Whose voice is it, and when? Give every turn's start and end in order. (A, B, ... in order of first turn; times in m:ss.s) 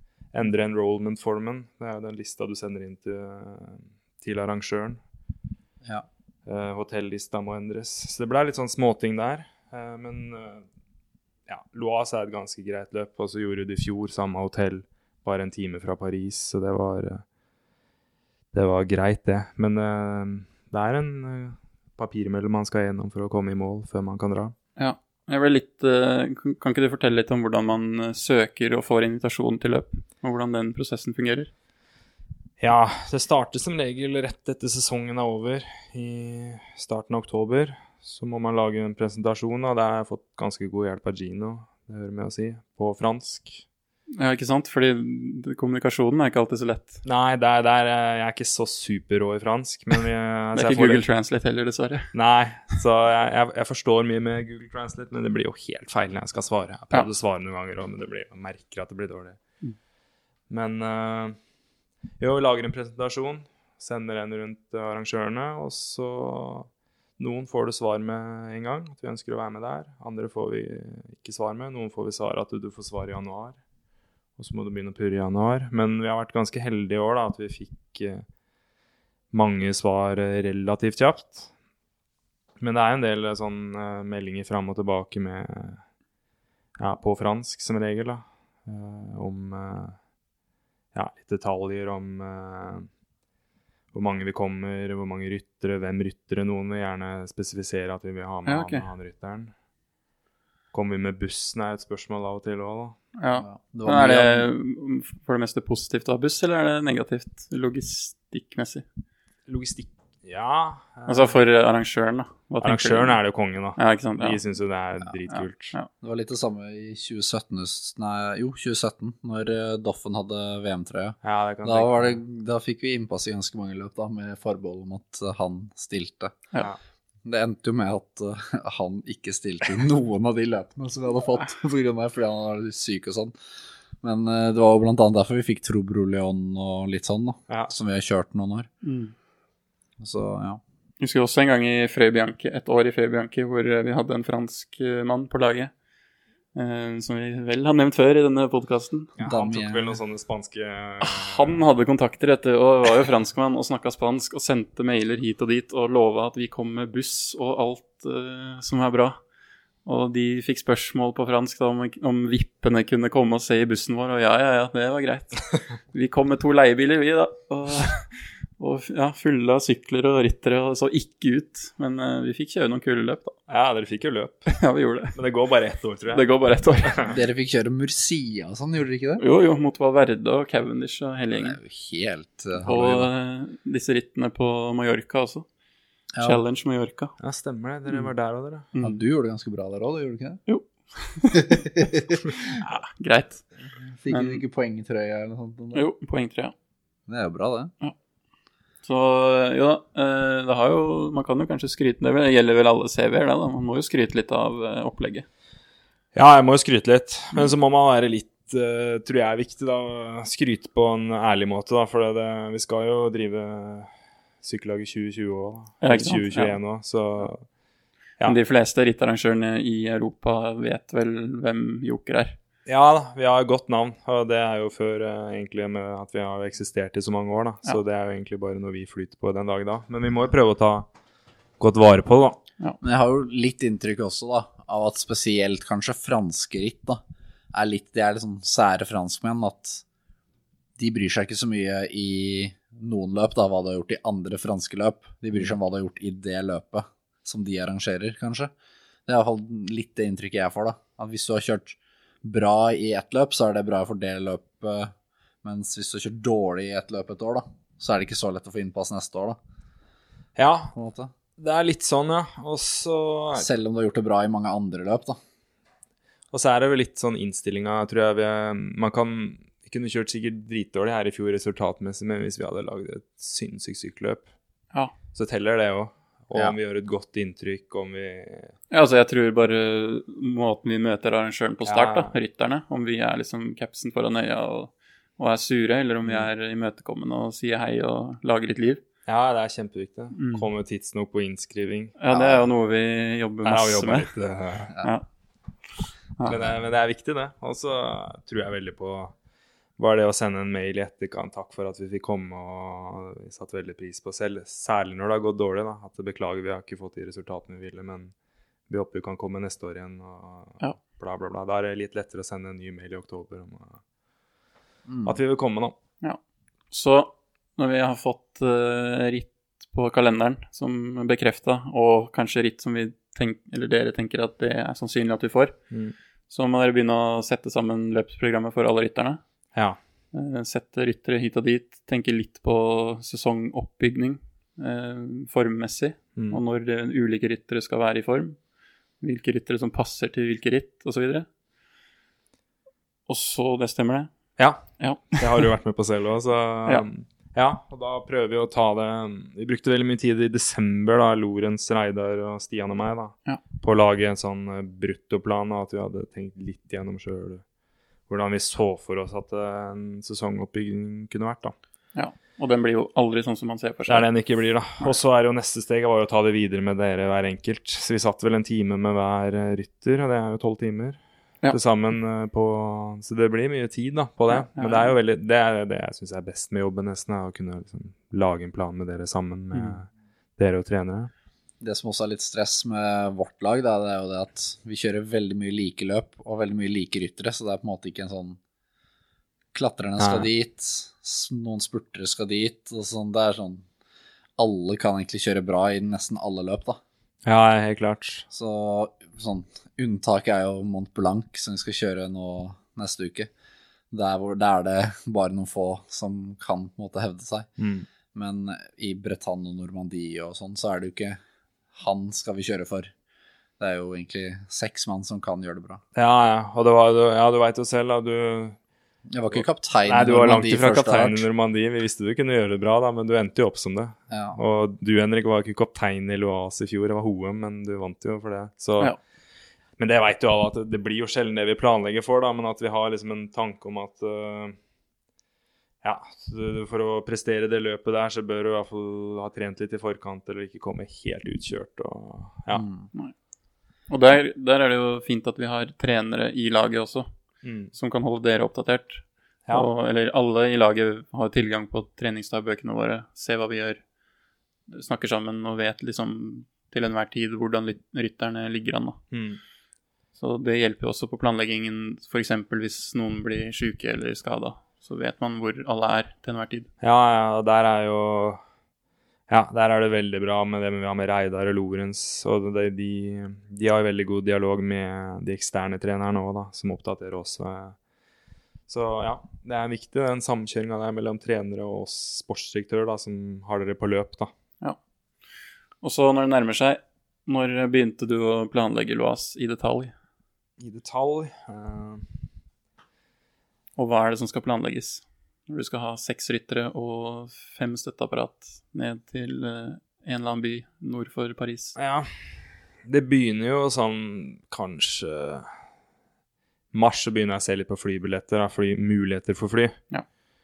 0:00.3-0:05.0 A
0:06.4-0:10.6 A
0:11.5-0:17.2 A
0:18.5-0:24.5 A
0:24.8-0:31.5 B
0:32.6-0:43.6 A
0:44.2-0:47.0 B
0:47.0-0:51.0 A
0:50.5-0:52.1 B
0:52.1-0:59.4 A
1:00.5-1:01.4 A
1:02.2-1:13.6 A
1:14.4-1:18.2 A
1:19.3-1:21.5 A
1:22.6-1:25.8 A
1:26.8-1:30.0 A
1:30.9-1:32.9 A
1:33.9-1:39.5 A
1:38.4-1:38.9 B
1:40.7-1:43.0 A
1:43.2-1:48.8 B
1:43.3-1:44.5 C
1:49.5-1:51.4 A
1:51.1-1:53.2 B
1:52.6-1:55.7 A
1:53.8-1:54.4 B
1:55.3-1:55.9 B
1:56.0-2:06.5 C
2:01.2-2:02.2 A
2:07.2-2:13.3 C
2:14.0-2:18.7 C
2:18.8-2:19.1 B
2:20.0-2:20.6 C
2:21.0-2:25.7 B
2:26.5-2:29.1 B
2:29.2-2:31.6 A
2:29.2-2:30.0 C
2:31.0-2:39.2 B
2:39.8-2:53.4 B
2:53.5-2:54.5 A
2:54.6-2:55.2 B
2:55.1-2:56.2 A
2:56.1-2:57.1 B
2:56.8-2:57.1 A
2:57.1-2:59.2 C
2:59.2-3:01.6 B
3:01.3-3:03.1 C
3:02.6-3:05.5 B
3:06.1-3:06.4 C
3:06.2-3:07.1 B
3:07.2-3:08.7 A
3:08.7-3:09.0 B
3:08.8-3:10.4 C
3:10.5-3:11.6 B
3:11.3-3:12.2 C
3:12.5-3:13.4 B
3:13.9-3:15.8 C
3:14.1-3:14.4 B
3:15.7-3:16.5 B
3:17.1-3:17.7 C
3:18.8-3:25.2 B
3:26.1-3:37.4 A
3:35.8-3:36.6 B
3:38.2-3:42.4 B
3:42.6-3:50.9 A
3:51.6-3:52.4 A
3:52.8-3:57.0 C
3:57.5-3:59.8 C
4:00.8-4:08.5 C
4:09.1-4:14.9 C
4:15.4-4:19.4 C
4:20.4-4:20.7 A
4:20.7-4:21.1 C
4:21.4-4:23.5 A
4:23.4-4:25.2 C
4:26.3-4:34.3 A
4:35.1-4:38.5 A
4:38.7-4:48.8 B
4:41.6-4:42.1 A
4:49.0-4:51.9 A
4:50.1-4:50.5 B
4:52.0-4:54.1 B
4:52.1-4:52.4 C
4:53.4-4:54.7 A
4:56.2-4:59.1 A
4:59.8-5:08.1 A
5:08.7-5:13.8 A
5:14.9-5:15.2 C
5:15.0-5:15.8 A
5:16.7-5:25.6 B
5:26.3-5:29.2 B
5:30.1-5:38.4 B
5:36.1-5:36.4 A
5:39.0-5:41.3 B
5:43.1-5:44.1 B
5:44.4-5:57.4 A
5:44.8-5:45.5 B
5:58.1-6:01.5 A
6:01.9-6:04.1 B
6:03.9-6:21.1 A
6:14.3-6:14.9 B
6:21.6-6:28.4 C
6:29.5-6:33.6 C
6:30.0-6:30.3 A
6:34.4-6:36.8 C
6:37.2-6:38.2 A
6:38.3-6:43.3 C
6:43.9-6:47.5 C
6:47.6-6:47.9 A
6:48.1-6:51.2 C
6:51.8-6:52.9 C
6:53.6-6:55.8 C
6:55.9-6:58.6 A
6:59.1-7:01.2 C
6:59.3-7:08.9 A
7:04.1-7:04.4 C
7:09.8-7:14.6 A
7:15.8-7:22.6 A
7:22.5-7:22.9 C
7:23.9-7:27.1 B
7:27.4-7:27.7 A
7:27.7-7:33.8 B
7:34.7-7:39.0 B
7:39.1-7:39.4 A
7:40.2-7:46.7 B
7:46.8-7:48.4 A
7:49.3-7:57.8 A
7:58.7-8:04.3 A
8:05.8-8:09.9 B
8:10.6-8:12.2 A
8:13.8-8:21.8 B
8:21.8-8:22.1 A
8:22.8-8:25.5 A
8:26.7-8:29.8 A